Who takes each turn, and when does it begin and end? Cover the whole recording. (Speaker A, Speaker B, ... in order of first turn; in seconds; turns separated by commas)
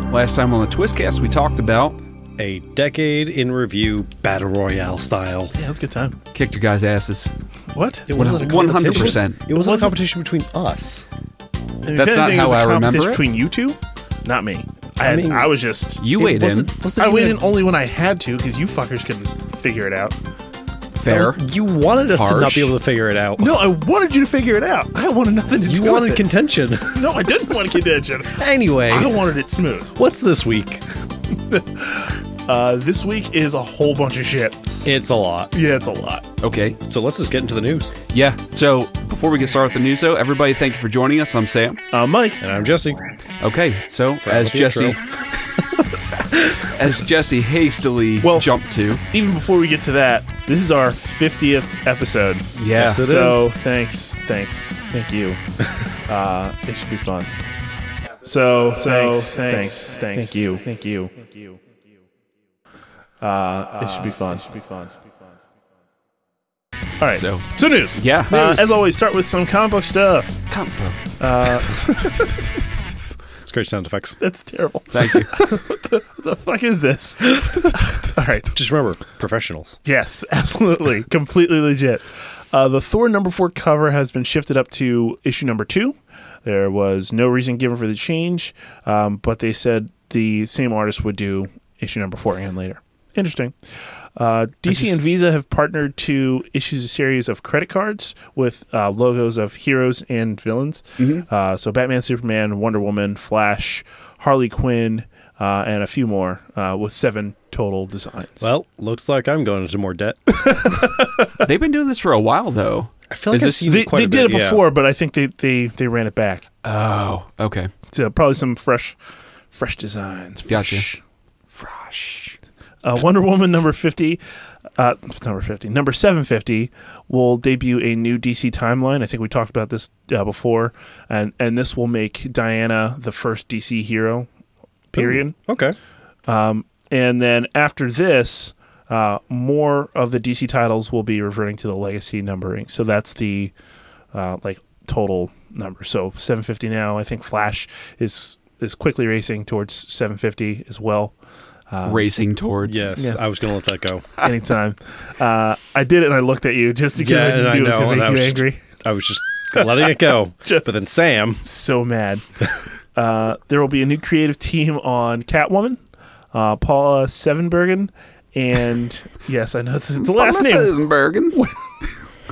Speaker A: 0.1-2.0, Speaker B: 2.4-5.5, Speaker C: 5.5-6.2, Speaker A: 6.3-7.3, Speaker C: 7.7-8.1, Speaker B: 8.1-11.1, Speaker A: 8.1-9.4, Speaker C: 8.9-9.9, Speaker C: 11.8-16.0, Speaker A: 11.9-13.2, Speaker B: 15.0-15.5, Speaker A: 16.0-16.7, Speaker B: 16.2-17.5, Speaker C: 16.9-20.1, Speaker A: 21.0-21.4, Speaker B: 21.1-23.6, Speaker A: 22.1-22.7, Speaker C: 23.4-26.3, Speaker B: 25.6-27.1, Speaker C: 26.9-29.9, Speaker B: 28.3-29.2, Speaker B: 29.9-30.8, Speaker C: 31.5-34.7, Speaker B: 34.8-35.5, Speaker C: 35.5-36.3, Speaker A: 36.4-36.8, Speaker B: 36.8-37.9, Speaker A: 38.1-41.8, Speaker C: 41.9-42.4, Speaker B: 42.4-43.0, Speaker A: 43.4-45.6, Speaker B: 44.2-45.0, Speaker A: 46.2-49.0, Speaker B: 46.3-46.6, Speaker C: 48.2-48.5, Speaker C: 49.1-55.4, Speaker A: 52.5-53.0, Speaker B: 52.7-53.5, Speaker C: 56.0-57.3, Speaker C: 58.2-61.5, Speaker C: 63.2-65.0, Speaker C: 67.0-70.4, Speaker A: 67.1-68.3, Speaker B: 68.3-68.6, Speaker A: 70.5-71.0, Speaker C: 71.2-72.3, Speaker B: 73.4-74.2, Speaker C: 74.2-78.5, Speaker A: 74.9-75.3, Speaker B: 78.5-79.8, Speaker C: 79.8-108.5, Speaker A: 101.0-101.2, Speaker B: 108.4-110.3, Speaker C: 110.3-111.5, Speaker A: 111.4-113.7, Speaker B: 113.1-114.6, Speaker C: 113.7-116.5, Speaker A: 116.6-117.7, Speaker C: 117.9-119.0, Speaker C: 119.5-121.0, Speaker A: 120.5-120.8, Speaker A: 121.5-122.4, Speaker C: 122.8-124.2, Speaker C: 124.8-134.3, Speaker C: 134.9-135.3, Speaker B: 135.0-135.8, Speaker C: 136.3-143.5, Speaker C: 144.1-151.1, Speaker C: 151.7-152.1, Speaker A: 151.8-152.9, Speaker B: 152.6-154.0, Speaker C: 154.2-158.6, Speaker B: 156.9-161.4, Speaker C: 159.5-160.7, Speaker C: 161.4-162.2, Speaker C: 162.9-165.8, Speaker C: 166.3-170.7, Speaker A: 170.0-171.4, Speaker C: 171.3-171.7